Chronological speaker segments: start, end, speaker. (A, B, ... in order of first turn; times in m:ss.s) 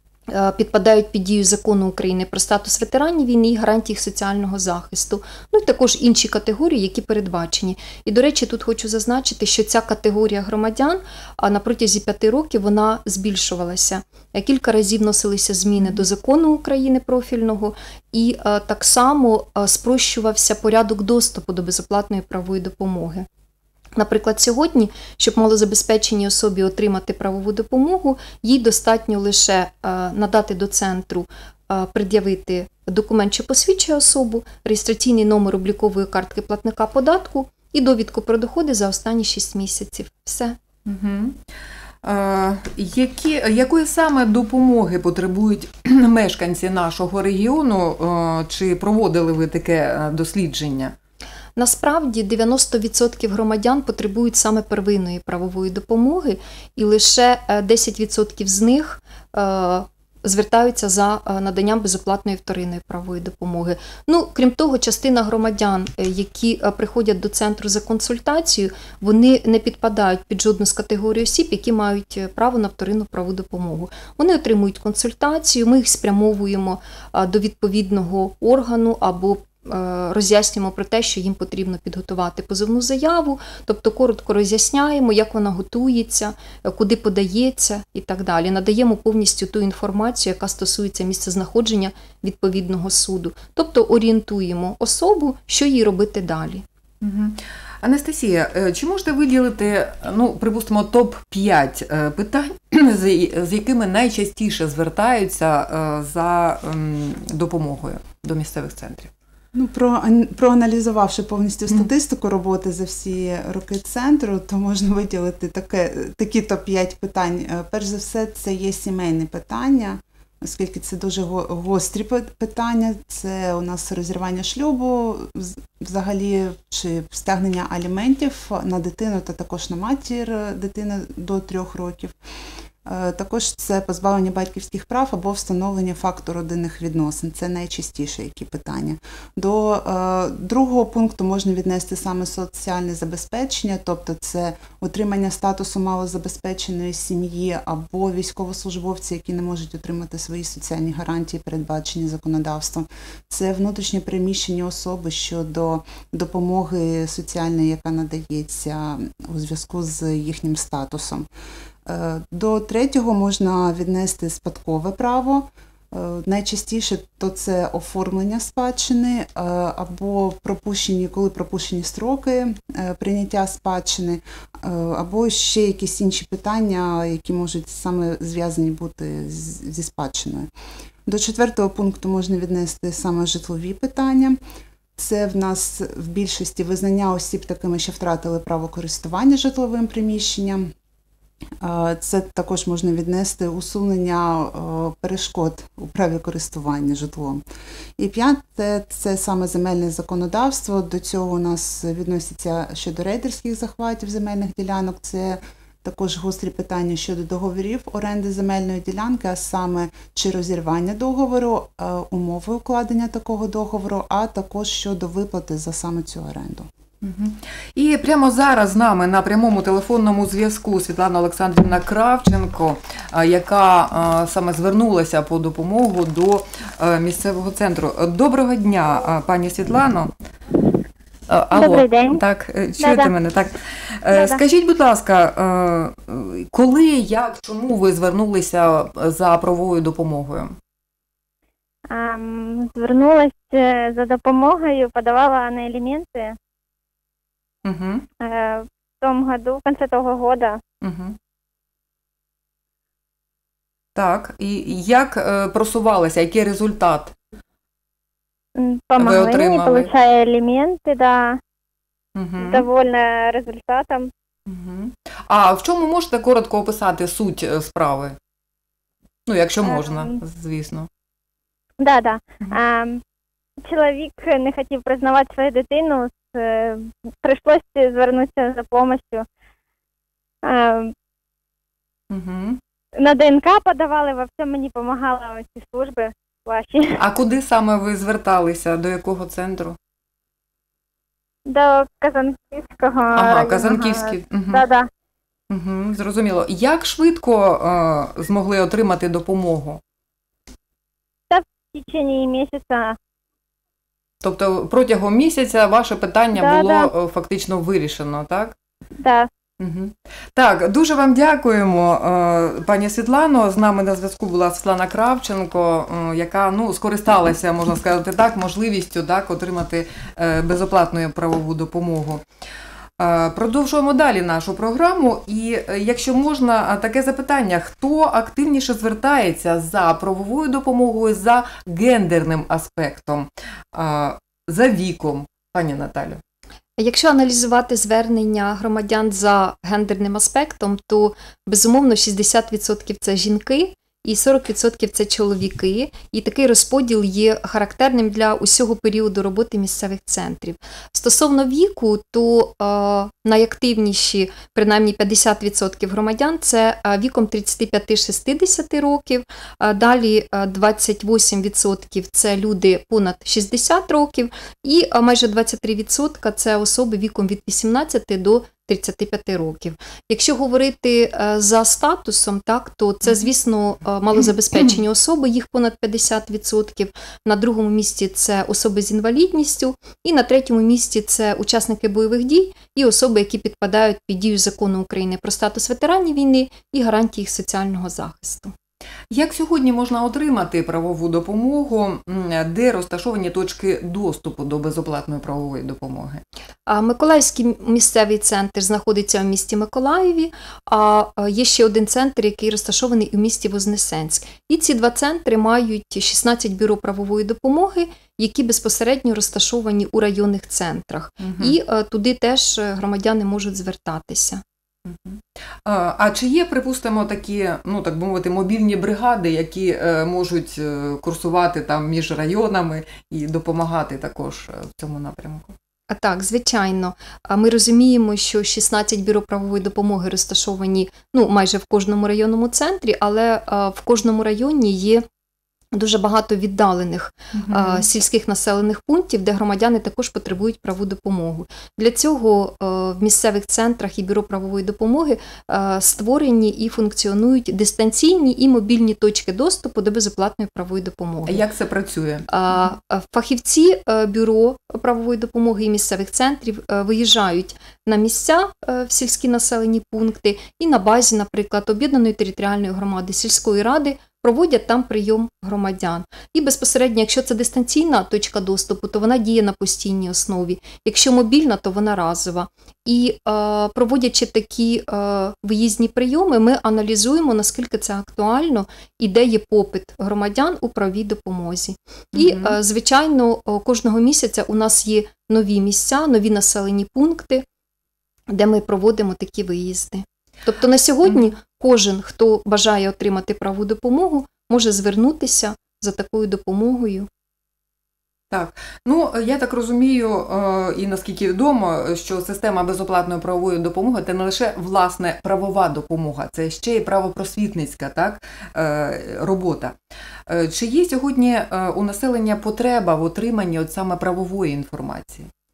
0:00.3-0:23.3 A
0:24.0-0:40.6 A
0:40.9-0:41.4 B
0:42.0-0:51.0 B
0:51.6-1:36.6 A
1:37.0-1:49.1 B
1:49.5-2:12.2 C
2:12.8-2:41.3 C
2:41.9-3:00.5 C
3:01.1-3:04.4 C
3:05.0-3:10.7 C
3:11.6-3:17.4 C
3:18.0-3:36.7 C
3:37.0-3:50.1 B
3:51.3-4:00.6 B
3:51.5-3:52.2 D
3:52.8-3:53.1 D
3:54.1-3:54.4 D
4:01.9-4:06.3 D
4:07.6-4:08.1 B
4:08.2-4:10.6 D
4:10.8-4:11.2 B
4:14.0-4:17.2 B
4:18.6-4:21.4 D
4:19.0-4:19.9 B
4:22.2-4:22.7 B
4:22.4-4:24.1 D
4:24.5-4:28.2 B
4:29.3-4:30.9 B
4:29.6-4:30.1 D
4:31.8-4:33.0 D
4:33.7-4:39.2 D
4:40.4-4:40.9 D
4:42.1-4:42.6 B
4:43.0-4:47.0 D
4:47.0-4:49.8 B
4:51.5-4:54.9 D
4:53.2-4:54.6 B
4:55.5-4:59.8 B
5:01.3-5:03.0 D
5:04.2-5:08.5 B
5:06.4-5:06.9 D
5:09.0-5:09.3 D
5:09.6-5:22.2 B
5:23.0-5:36.2 B
5:36.8-6:28.5 A
6:29.1-6:36.2 B
6:36.7-6:54.4 A
6:51.2-6:51.6 B
6:54.8-7:05.5 B
7:05.9-7:15.0 A
7:15.7-7:31.4 A
7:17.3-7:17.9 B
7:31.3-7:32.3 B
7:32.3-8:07.5 A
8:02.1-8:02.6 B
8:08.3-8:17.1 A
8:18.3-8:29.8 B
8:30.3-8:35.3 B